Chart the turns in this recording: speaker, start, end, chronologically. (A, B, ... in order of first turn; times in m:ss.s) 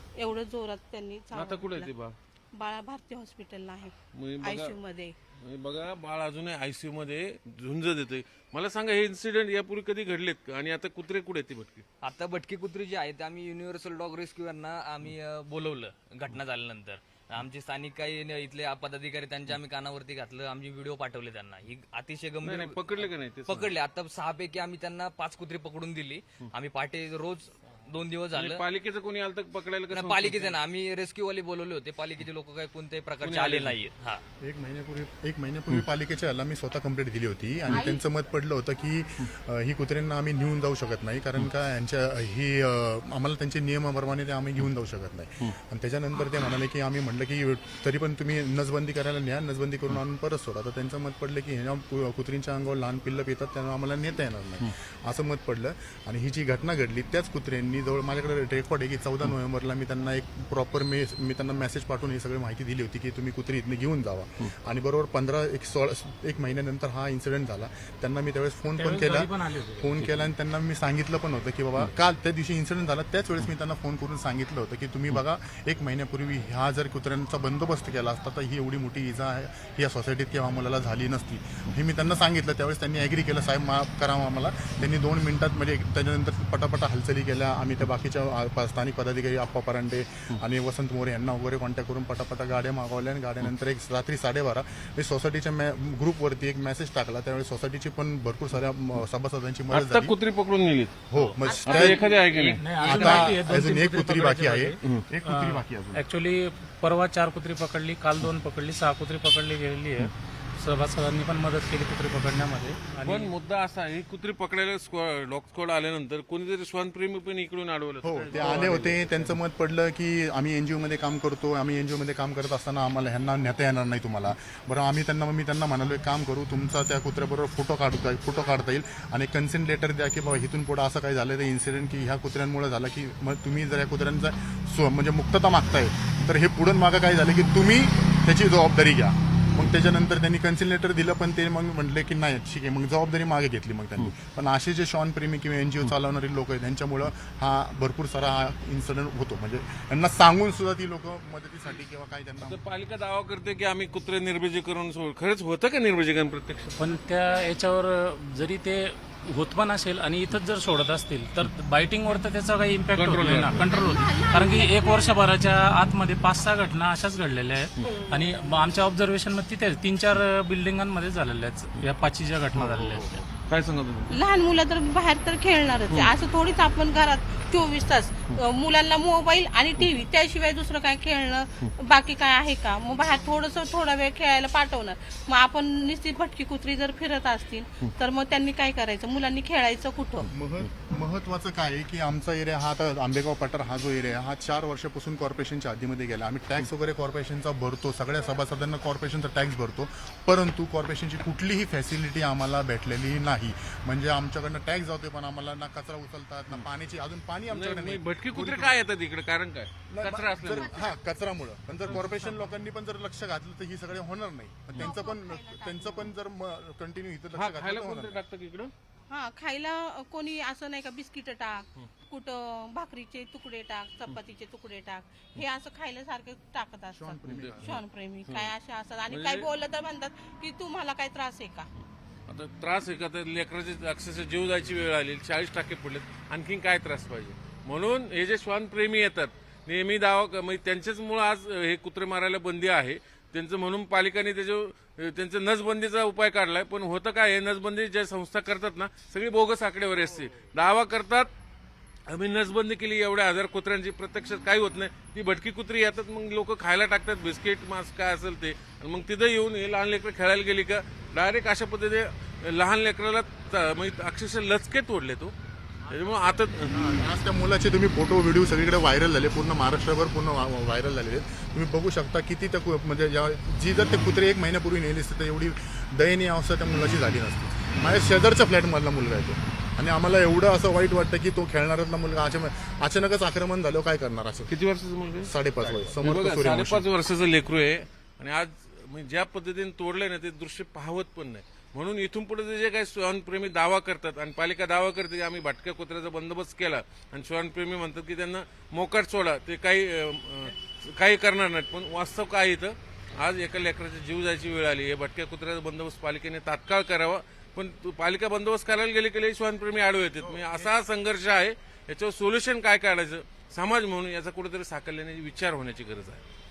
0:00.2-0:01.9 A
0:01.3-0:02.1 B
0:02.6-0:05.1 A
0:04.1-0:04.7 B
0:05.4-0:11.8 B
0:12.0-0:22.7 C
0:22.4-0:23.7 B
0:23.5-0:28.6 C
0:28.3-0:30.6 B
0:30.0-0:34.2 C
0:33.2-0:33.8 B
0:34.4-1:40.2 D
1:08.8-1:10.0 E
1:39.7-1:40.9 B
1:41.1-1:42.1 D
1:41.4-1:42.2 A
1:41.6-1:43.2 B
1:42.3-1:53.3 E
1:42.8-1:46.0 D
1:53.0-1:59.3 B
1:58.0-2:32.6 D
2:32.4-2:36.8 B
2:36.8-2:53.2 E
2:43.0-2:43.6 B
2:43.7-2:45.2 A
2:52.5-2:54.2 B
2:54.1-3:10.3 A
3:10.3-3:28.8 D
3:27.5-3:30.8 B
3:29.9-3:38.2 D
3:30.6-3:31.0 A
3:31.9-3:32.4 B
3:34.8-3:36.1 A
3:37.3-3:38.7 B
3:39.1-3:51.7 A
3:46.9-3:47.8 D
3:47.2-3:47.7 B
3:49.1-3:49.5 B
3:52.3-4:11.3 B
4:12.1-4:25.3 B
4:25.8-4:26.8 B
4:26.6-4:44.5 D
4:44.5-5:16.2 B
4:45.2-4:46.9 D